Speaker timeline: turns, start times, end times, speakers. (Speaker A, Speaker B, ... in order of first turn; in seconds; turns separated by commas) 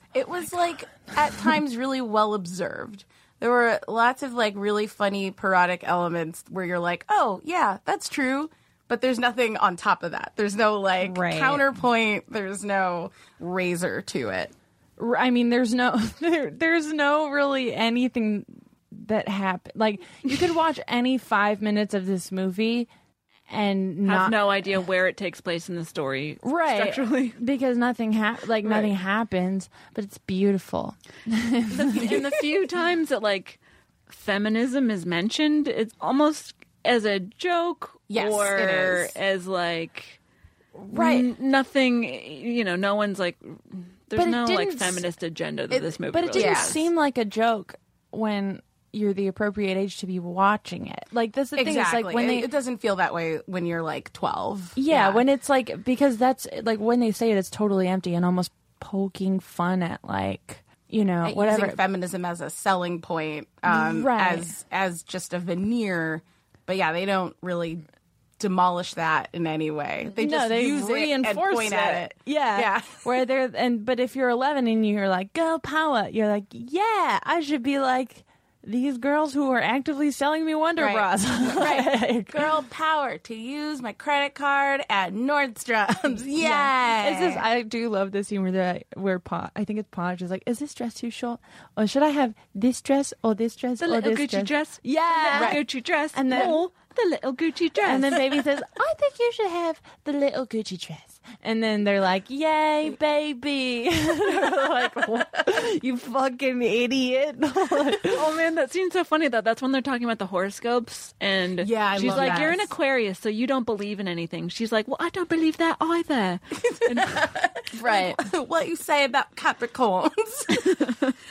Speaker A: 0.1-14.5, Speaker B: 11.0-11.7, Speaker B: 15.0-22.9, Speaker B: 23.5-24.8, Speaker C: 24.0-27.4, Speaker B: 26.4-32.5, Speaker C: 31.7-40.2, Speaker A: 38.1-39.1, Speaker B: 40.8-41.3, Speaker C: 40.9-46.8, Speaker B: 44.1-45.0, Speaker A: 45.7-46.8, Speaker B: 46.1-52.5, Speaker A: 51.5-55.2, Speaker B: 54.8-61.8, Speaker A: 61.2-67.8, Speaker B: 63.7-64.5, Speaker A: 68.4-73.0, Speaker B: 70.1-82.5, Speaker A: 80.8-87.4, Speaker B: 86.3-95.6, Speaker C: 93.8-98.2, Speaker A: 95.3-95.6, Speaker B: 96.1-96.7, Speaker B: 97.8-108.3, Speaker C: 108.1-117.3, Speaker A: 111.6-112.7, Speaker B: 112.0-112.6, Speaker A: 116.6-120.7, Speaker B: 117.7-118.2, Speaker C: 120.5-121.1